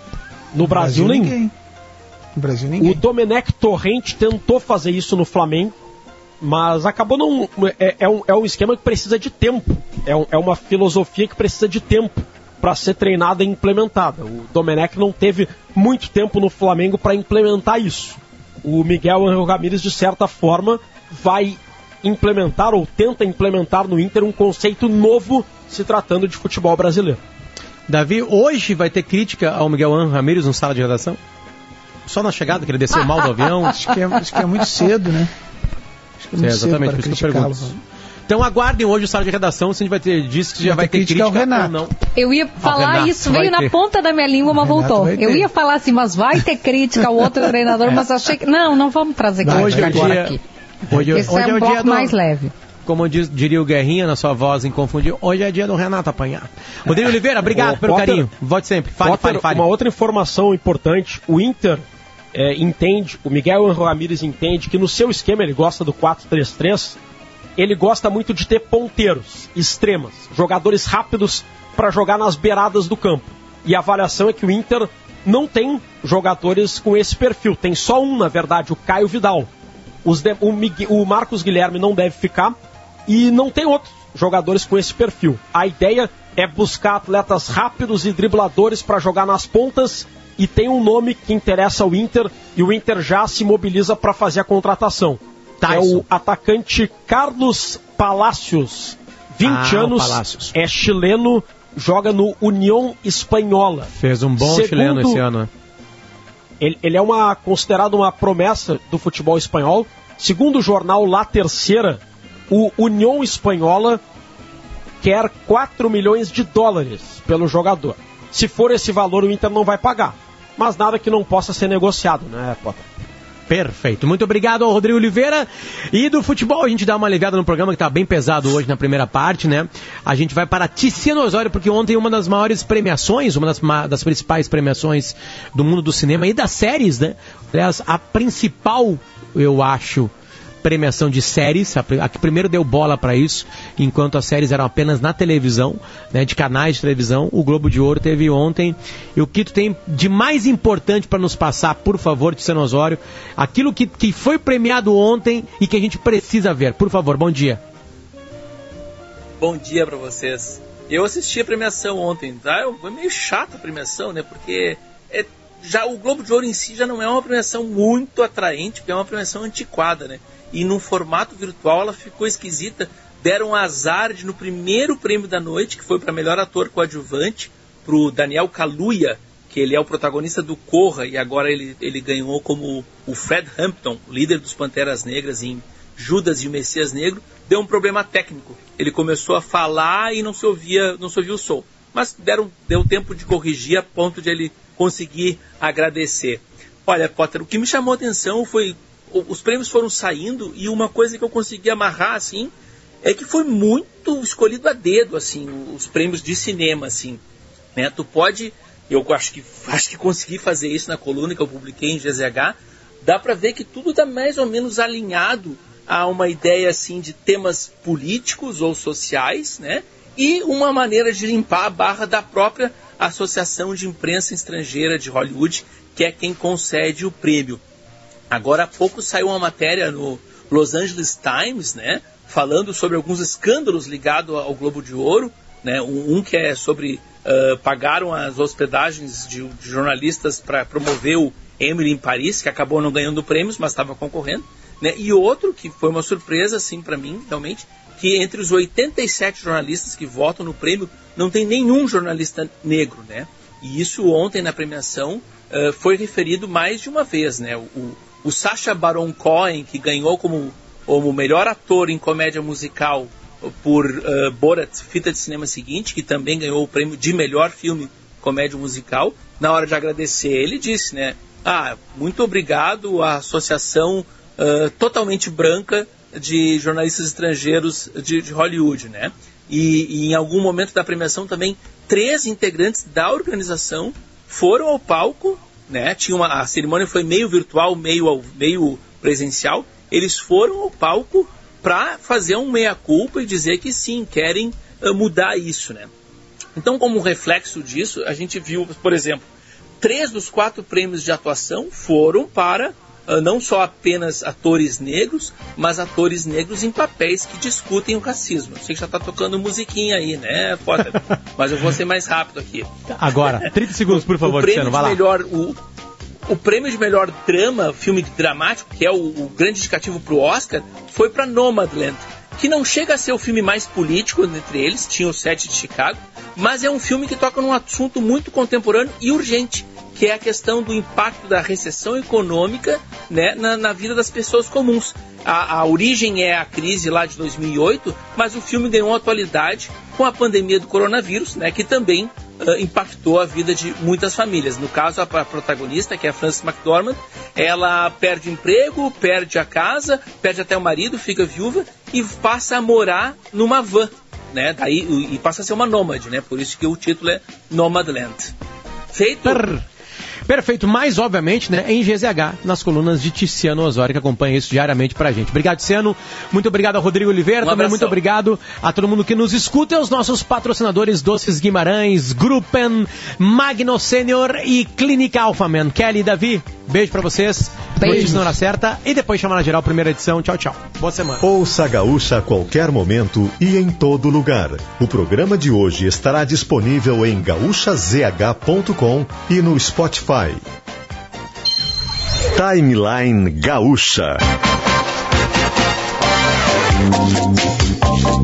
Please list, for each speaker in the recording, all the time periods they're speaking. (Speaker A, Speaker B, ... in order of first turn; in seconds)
Speaker A: 0.5-1.4, 2.8-5.8, 6.4-27.2, 57.5-58.3, 59.0-67.0, 67.6-79.5, 80.0-105.2, 106.6-114.0, 115.0-122.9
Speaker B: 0.6-1.5, 2.4-3.0, 33.7-35.3, 36.2-37.8, 40.6-41.8, 44.5-45.5, 49.4-50.3, 50.9-51.3, 377.8-378.2
Speaker C: 27.9-31.2, 32.1-33.9, 36.4-37.8, 38.3-42.0, 42.6-43.8, 49.5-50.4, 50.9-52.1, 52.9-59.7, 95.6-96.0, 99.4-100.5, 104.0-105.5, 123.5-140.1, 140.6-157.6, 312.9-315.0, 359.2-359.6, 360.3-381.2
Speaker D: 42.1-50.4, 51.1-52.5, 377.8-378.1
Speaker E: 159.4-202.5, 203.0-207.2, 207.8-227.6, 228.3-295.9, 296.6-299.3, 299.8-315.6, 316.3-358.3, 358.9-359.5, 367.4-368.0
Speaker F: 381.2-390.4, 392.3-394.2